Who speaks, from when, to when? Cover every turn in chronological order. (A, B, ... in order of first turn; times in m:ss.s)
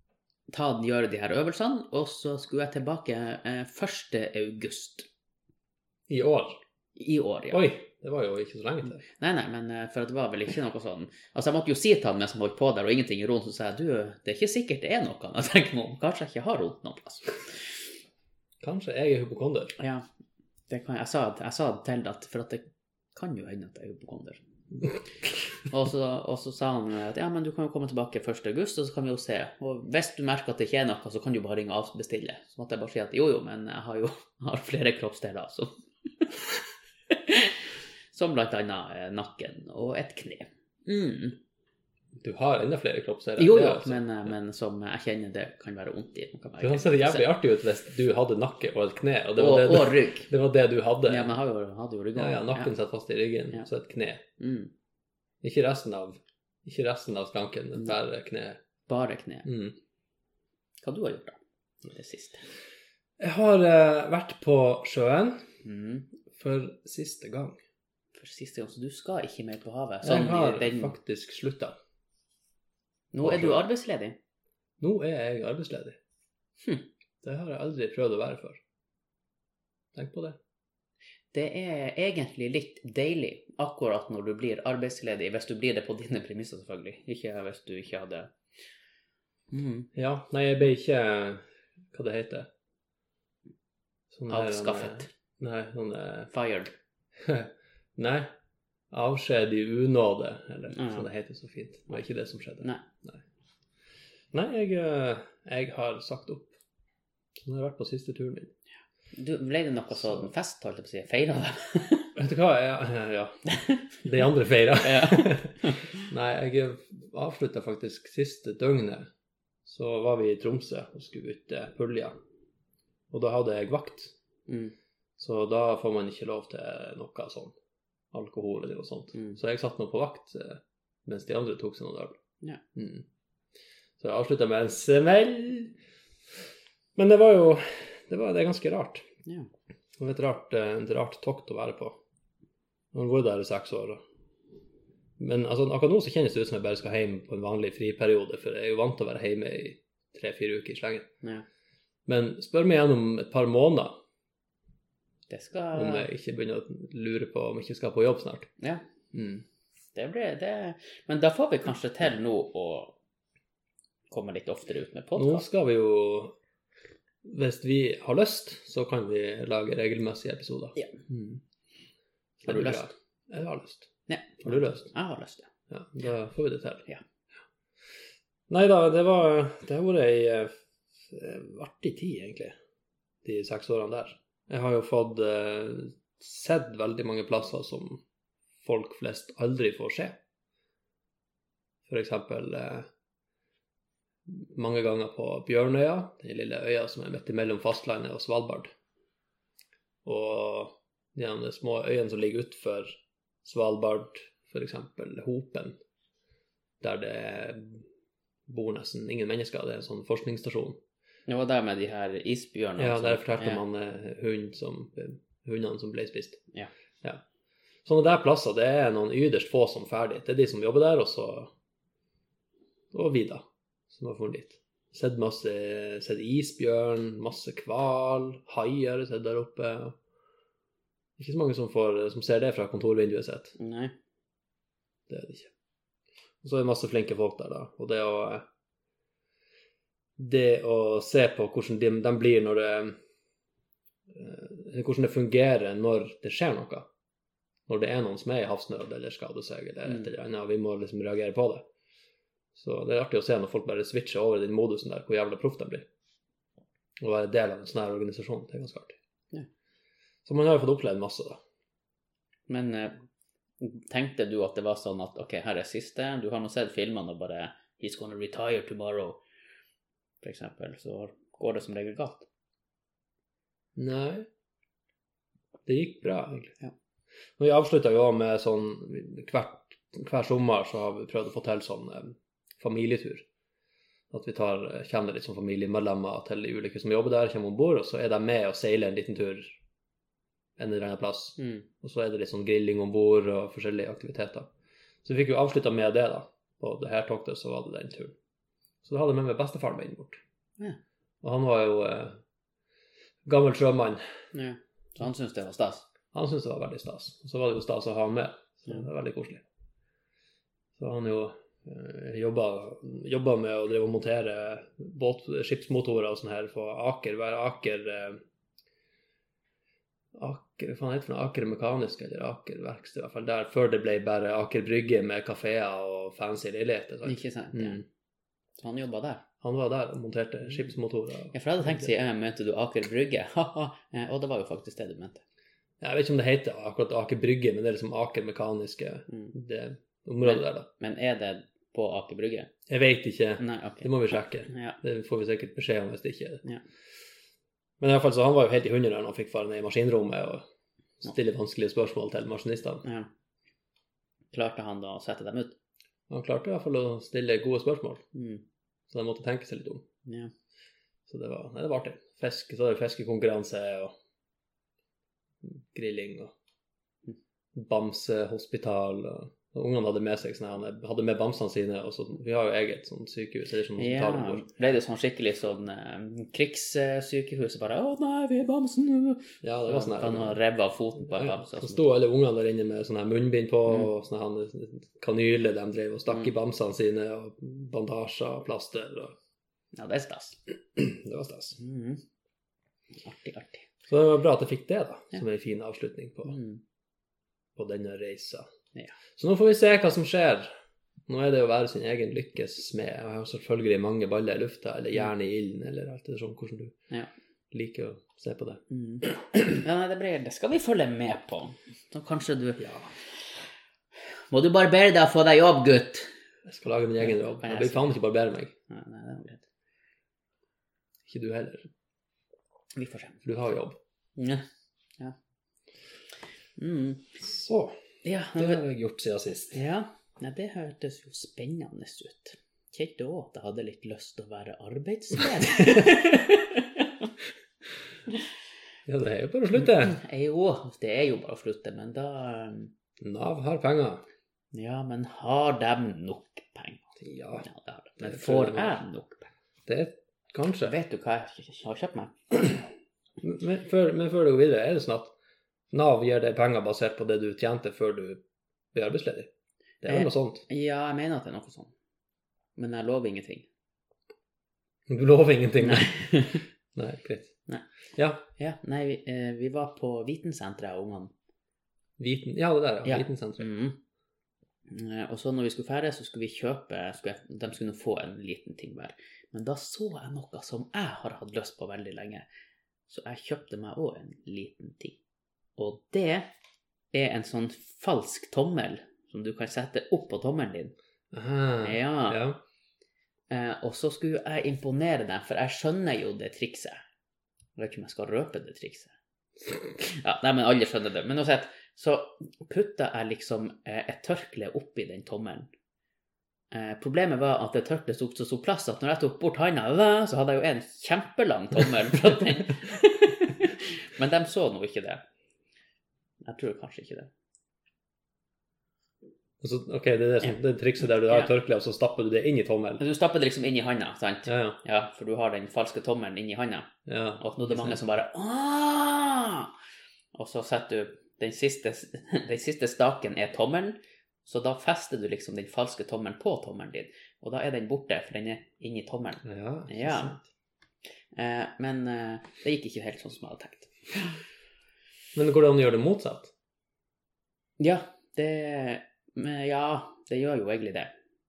0:00.5-0:05.1 A
0:06.1-0:06.6 B
0:07.0-0:07.7 A
0:07.5-0:09.0 B
0:09.0-0:17.8 A
0:18.6-0:19.8 B
0:19.8-0:20.0 A
0:20.7-0:24.4 A
0:25.6-0:36.4 A
0:37.1-0:41.4 A
0:42.2-0:44.0 B
0:43.4-0:47.3 A
0:46.6-0:51.3 B
0:49.4-0:50.3 A
0:51.0-0:52.7 A
0:52.2-0:54.2 B
0:54.4-0:54.7 A
0:55.4-0:58.6 B
0:58.9-0:59.5 A
0:59.4-0:59.7 B
1:00.8-1:02.4 A
1:03.2-1:05.5 B
1:05.6-1:06.1 A
1:06.3-1:07.6 B
1:08.1-1:10.9 A
1:10.0-1:11.8 B
1:13.1-1:14.2 A
1:13.2-1:13.6 B
1:14.8-1:16.0 B
1:17.2-1:18.6 B
1:19.9-1:20.4 B
1:21.3-1:28.3 A
1:29.5-1:29.9 A
1:29.9-1:32.5 B
1:34.1-1:36.3 B
1:34.3-1:35.1 A
1:36.3-1:36.7 A
1:37.2-1:38.3 B
1:38.9-1:43.2 B
1:40.7-1:41.1 A
1:44.3-1:46.5 B
1:47.4-1:48.5 B
1:49.1-1:52.1 A
1:49.9-1:50.3 B
1:52.2-1:53.4 B
1:54.0-1:59.1 B
1:54.8-1:56.1 A
1:59.6-2:02.1 B
2:03.1-2:04.1 B
2:04.5-2:04.7 A
2:05.2-2:07.6 B
2:08.1-2:12.2 B
2:12.7-2:13.0 B
2:14.0-2:15.8 B
2:17.0-2:19.0 B
2:20.0-2:22.0 B
2:22.9-2:24.0 B
2:25.2-2:31.1 B
2:32.0-2:34.0 B
2:35.3-2:36.1 A
2:35.7-2:38.5 B
2:39.1-2:39.4 B
2:39.9-2:43.0 A
2:44.1-2:45.4 A
2:45.2-2:46.3 B
2:47.2-2:51.4 B
2:50.8-2:51.0 A
2:52.4-2:53.9 B
2:52.4-2:52.9 A
2:54.1-2:55.5 A
2:54.4-2:54.9 B
2:55.7-2:56.9 B
2:58.5-3:00.5 B
3:01.1-3:02.6 B
3:03.2-3:08.0 B
3:08.6-3:10.2 B
3:11.9-3:12.9 B
3:14.3-3:18.7 B
3:20.0-3:25.8 B
3:26.8-3:27.8 B
3:28.5-3:30.8 B
3:31.3-3:33.6 A
3:32.8-3:36.4 B
3:37.8-3:41.5 B
3:42.9-3:50.0 B
3:51.2-3:53.6 B
3:53.6-3:53.9 A
3:55.1-3:55.5 B
3:56.4-3:58.5 B
4:00.2-4:03.0 B
4:04.1-4:06.9 B
4:07.7-4:11.7 B
4:12.5-4:15.8 B
4:17.0-4:19.0 B
4:20.2-4:21.4 B
4:22.5-4:23.0 A
4:23.6-4:29.2 A
4:30.2-4:32.3 A
4:33.8-4:34.3 B
4:35.6-4:36.5 B
4:37.4-4:43.2 B
4:44.1-4:49.6 B
4:50.6-4:54.5 B
4:51.4-4:51.7 A
4:55.0-4:58.1 B
4:58.8-5:00.2 B
5:01.2-5:02.2 B
5:03.2-5:04.0 B
5:04.3-5:05.8 A
5:06.1-5:09.4 B
5:10.8-5:18.2 B
5:20.1-5:27.8 B
5:27.0-5:27.8 A
5:28.6-5:29.2 A
5:29.4-5:31.8 B
5:31.3-5:35.2 A
5:35.8-5:40.7 B
5:40.2-5:42.5 A
5:42.7-5:46.4 B
5:43.4-5:43.9 A
5:44.5-5:44.8 A
5:47.8-5:50.4 B
5:51.0-5:52.8 B
5:52.8-5:53.1 A
5:54.3-5:55.6 A
5:56.1-5:58.0 B
5:58.1-5:58.4 A
5:58.9-5:59.8 B
6:00.0-6:00.3 A
6:01.1-6:03.9 B
6:05.4-6:06.3 B
6:07.5-6:14.4 B
6:13.8-6:21.9 A
6:19.4-6:20.4 B
6:21.0-6:29.2 B
6:29.7-6:30.4 A
6:30.8-6:31.6 B
6:31.6-6:32.0 A
6:33.0-6:33.7 A
6:33.9-6:36.4 B
6:36.2-6:36.6 A
6:37.6-6:38.5 B
6:39.2-6:40.5 B
6:41.1-6:46.8 B
6:47.5-6:48.6 B
6:48.7-6:52.8 A
6:52.6-6:52.9 B
6:54.3-6:56.1 A
6:56.4-6:58.5 B
6:57.0-6:58.0 A
6:58.7-6:59.4 A
7:01.1-7:01.7 B
7:02.8-7:03.2 A
7:03.2-7:03.8 B
7:04.2-7:04.4 A
7:06.6-7:07.2 A
7:07.2-7:07.8 B
7:08.0-7:08.6 A
7:08.3-7:09.6 B
7:09.5-7:17.1 A
7:18.8-7:20.0 B
7:19.6-7:22.7 A
7:23.0-7:24.0 B
7:24.5-7:29.3 A
7:27.0-7:27.4 B
7:28.0-7:28.8 B
7:29.6-7:30.7 B
7:30.6-7:32.6 A
7:33.2-7:35.1 B
7:35.7-7:38.2 B
7:38.7-7:39.3 B
7:39.8-7:40.4 B
7:39.9-7:41.7 A
7:42.6-7:43.5 A
7:44.9-7:47.4 B
7:45.6-7:46.4 A
7:48.0-7:48.2 B
7:48.4-7:51.1 A
7:52.0-7:53.5 B
7:52.8-7:53.8 A
7:54.7-8:02.2 A
8:02.9-8:05.0 A
8:05.6-8:06.3 A
8:06.9-8:10.7 A
8:11.1-8:12.4 B
8:11.6-8:12.2 A
8:13.3-8:16.8 A
8:17.6-8:18.9 A
8:19.7-8:25.5 A
8:26.5-8:35.0 A
8:36.2-8:37.1 A
8:39.4-8:42.8 B
8:42.8-8:49.5 A
8:44.3-8:44.6 B
8:46.9-8:47.8 B
8:50.1-9:00.2 A
8:59.2-9:00.2 B
9:01.1-9:04.2 A
9:05.1-9:06.3 B
9:07.6-9:10.9 A